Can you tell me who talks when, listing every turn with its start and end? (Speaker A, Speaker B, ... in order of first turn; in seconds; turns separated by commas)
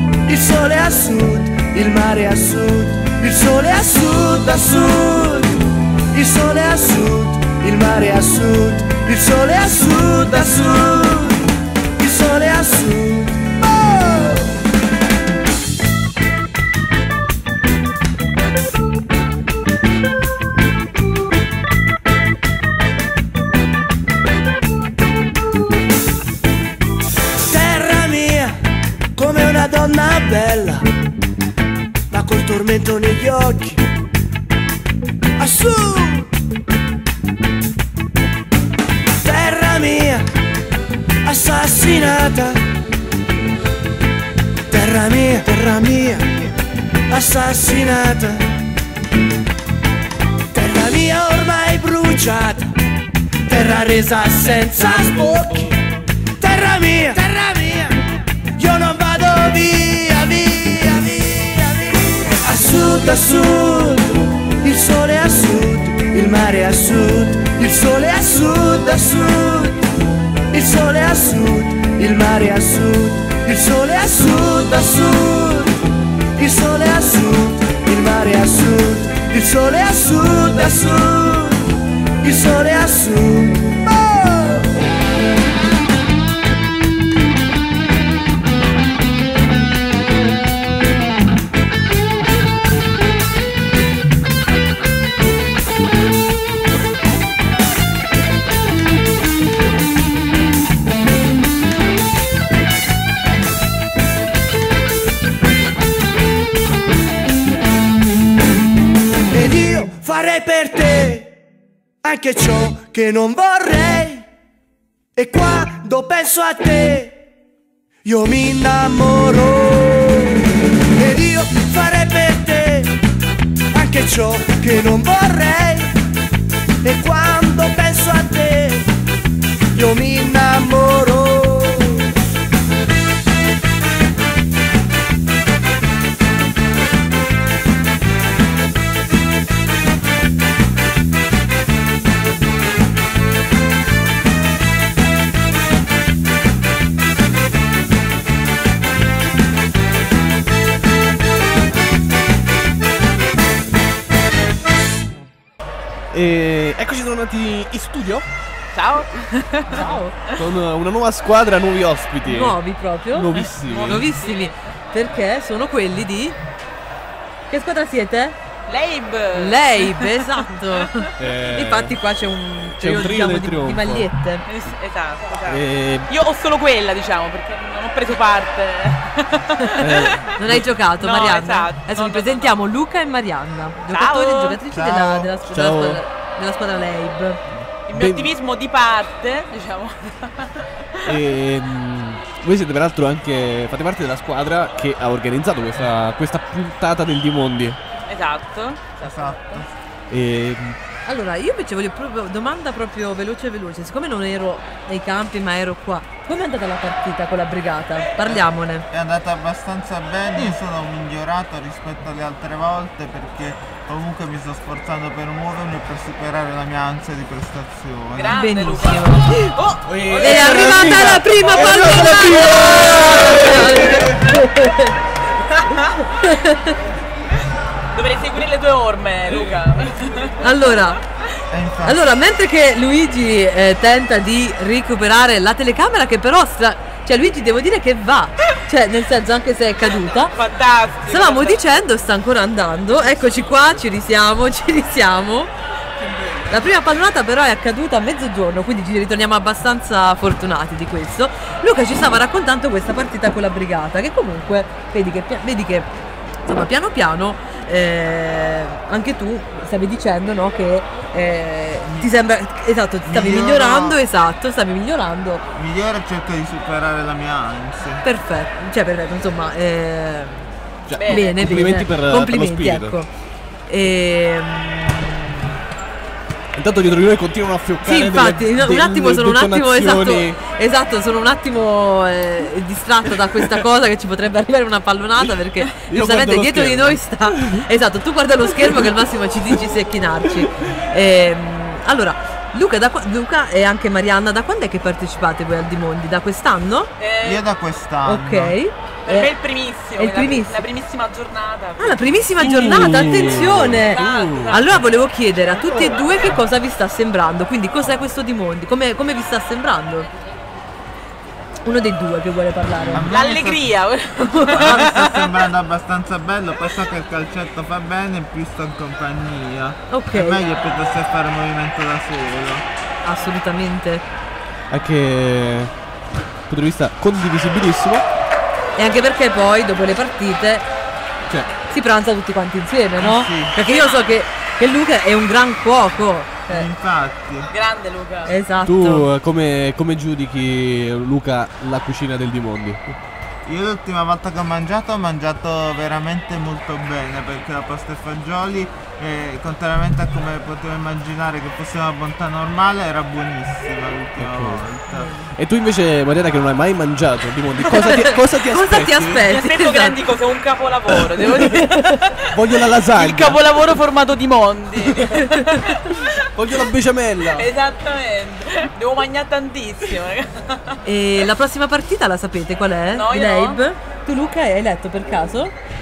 Speaker A: 0.3-14.5, Speaker A: 27.4-28.6, Speaker A: 29.2-30.8, Speaker A: 32.1-33.8, Speaker A: 35.4-36.3, Speaker A: 39.2-40.3, Speaker A: 41.2-42.6, Speaker A: 44.7-46.5, Speaker A: 47.1-48.6, Speaker A: 50.5-52.7, Speaker A: 53.5-55.8, Speaker A: 56.4-69.8, Speaker A: 70.5-84.7, Speaker A: 109.3-111.4, Speaker A: 112.0-114.3, Speaker A: 115.2-117.2, Speaker A: 118.0-123.0, Speaker A: 123.7-126.0, Speaker A: 126.8-128.9, Speaker A: 129.7-132.1, Speaker B: 156.1-158.2, Speaker C: 158.7-160.4, Speaker D: 159.7-160.2, Speaker B: 160.3-164.1, Speaker D: 162.2-163.3, Speaker C: 163.5-164.6, Speaker D: 163.8-166.4, Speaker D: 167.5-168.4, Speaker C: 168.7-171.1, Speaker D: 169.3-174.4, Speaker B: 171.2-172.0, Speaker B: 172.7-174.1, Speaker C: 174.5-182.7, Speaker B: 175.4-176.1, Speaker B: 179.8-180.8, Speaker D: 179.9-187.4, Speaker C: 183.9-184.6, Speaker E: 184.7-185.3, Speaker B: 185.5-186.0, Speaker C: 187.9-191.2, Speaker B: 187.9-188.3, Speaker B: 191.1-197.8, Speaker C: 198.1-199.6, Speaker E: 199.0-199.7, Speaker B: 200.1-200.8, Speaker D: 201.1-208.9, Speaker E: 208.2-218.4, Speaker C: 218.1-221.6, Speaker D: 218.4-219.5, Speaker B: 219.8-224.1, Speaker D: 220.2-225.0, Speaker C: 225.7-226.0, Speaker D: 226.1-226.8, Speaker C: 227.9-230.8, Speaker D: 230.4-231.0, Speaker E: 231.5-232.0, Speaker D: 231.8-240.4, Speaker C: 240.2-241.8, Speaker D: 241.1-245.5, Speaker D: 246.5-255.9, Speaker D: 256.5-265.5, Speaker E: 261.9-262.1, Speaker E: 263.0-264.0, Speaker E: 265.6-268.0, Speaker D: 268.0-270.5, Speaker B: 270.9-273.0, Speaker C: 270.9-271.3, Speaker D: 271.1-273.1, Speaker D: 273.7-275.5, Speaker B: 276.6-280.4, Speaker D: 277.8-296.9, Speaker B: 285.2-287.7, Speaker C: 297.0-297.5, Speaker E: 297.2-298.6, Speaker D: 298.0-299.3, Speaker C: 299.0-302.3, Speaker D: 300.0-300.6, Speaker D: 301.8-310.1, Speaker B: 302.4-304.6, Speaker C: 302.9-304.8, Speaker C: 305.8-306.2, Speaker D: 311.6-313.1, Speaker B: 312.8-313.1, Speaker E: 312.9-313.7, Speaker C: 313.1-315.5, Speaker D: 314.2-314.5, Speaker E: 314.5-322.6, Speaker D: 319.9-320.5, Speaker D: 323.0-324.1, Speaker B: 324.7-325.7, Speaker B: 326.5-328.1, Speaker D: 328.8-330.7, Speaker B: 331.3-331.6, Speaker D: 331.7-336.7, Speaker E: 333.0-333.6, Speaker C: 333.6-334.2, Speaker E: 336.5-337.5, Speaker C: 337.5-338.4, Speaker D: 338.3-339.1, Speaker B: 338.6-343.0, Speaker E: 343.4-355.1, Speaker B: 354.2-354.8, Speaker D: 354.9-355.3, Speaker B: 355.3-359.4, Speaker D: 357.6-360.0, Speaker C: 359.3-366.7, Speaker B: 360.9-361.7, Speaker D: 361.5-361.8, Speaker B: 362.3-363.8, Speaker B: 364.9-365.2, Speaker B: 366.4-367.5, Speaker C: 367.3-370.8, Speaker D: 370.9-375.5, Speaker C: 372.9-373.6